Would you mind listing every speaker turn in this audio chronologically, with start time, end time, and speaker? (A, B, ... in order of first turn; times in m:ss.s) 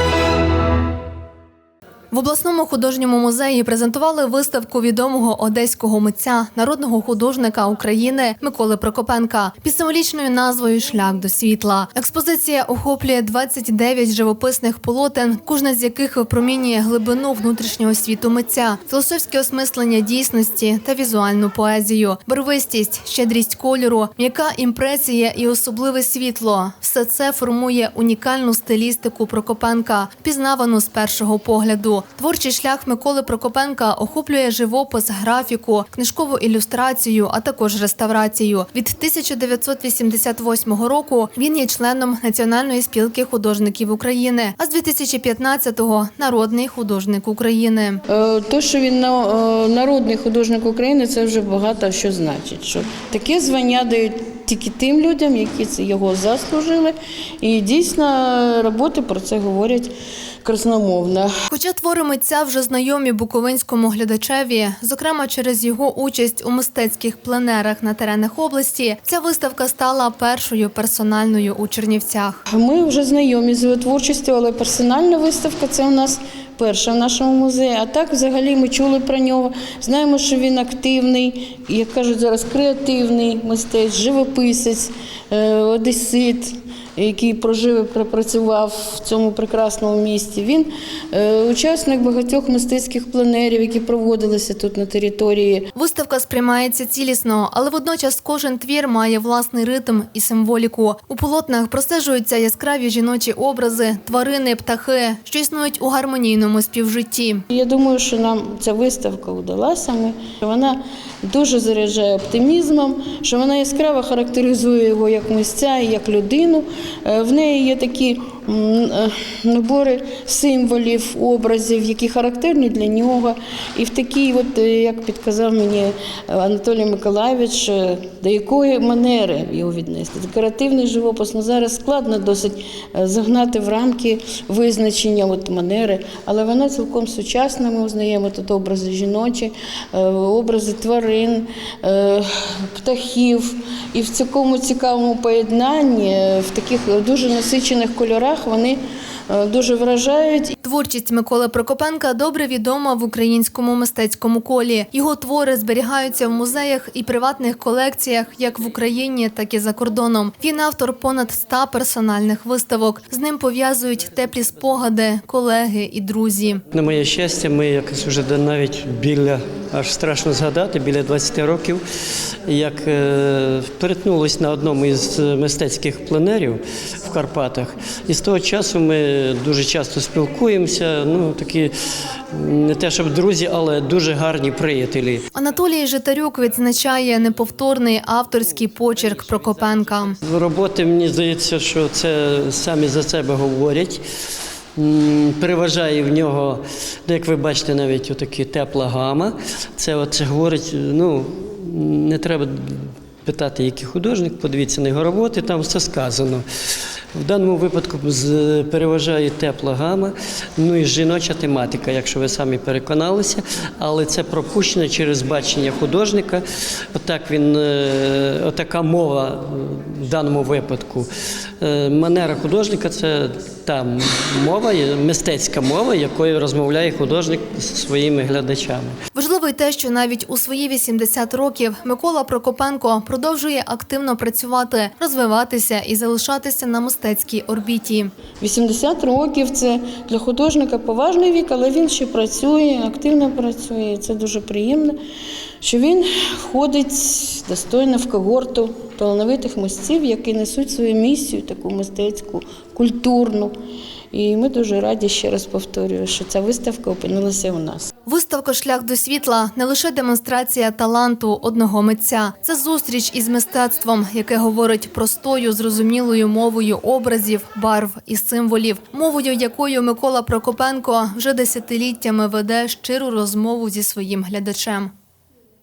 0:02.1-0:48.0 A
0:48.1-0:59.9 B
1:00.4-1:01.3 B
1:01.5-1:12.4 A
1:12.5-1:35.7 B
1:35.8-1:47.4 A
1:47.5-2:30.6 B
2:30.6-2:46.6 A
2:46.7-2:51.8 C
2:52.4-3:01.7 C
3:02.3-3:05.2 C
3:05.4-3:10.2 A
3:10.2-3:14.0 C
3:14.8-3:26.4 C
3:27.2-3:41.1 C
3:41.6-3:49.0 C
3:49.1-3:58.1 A
3:58.4-4:05.0 B
4:05.6-4:13.5 B
4:14.1-4:17.9 B
4:18.1-4:34.9 A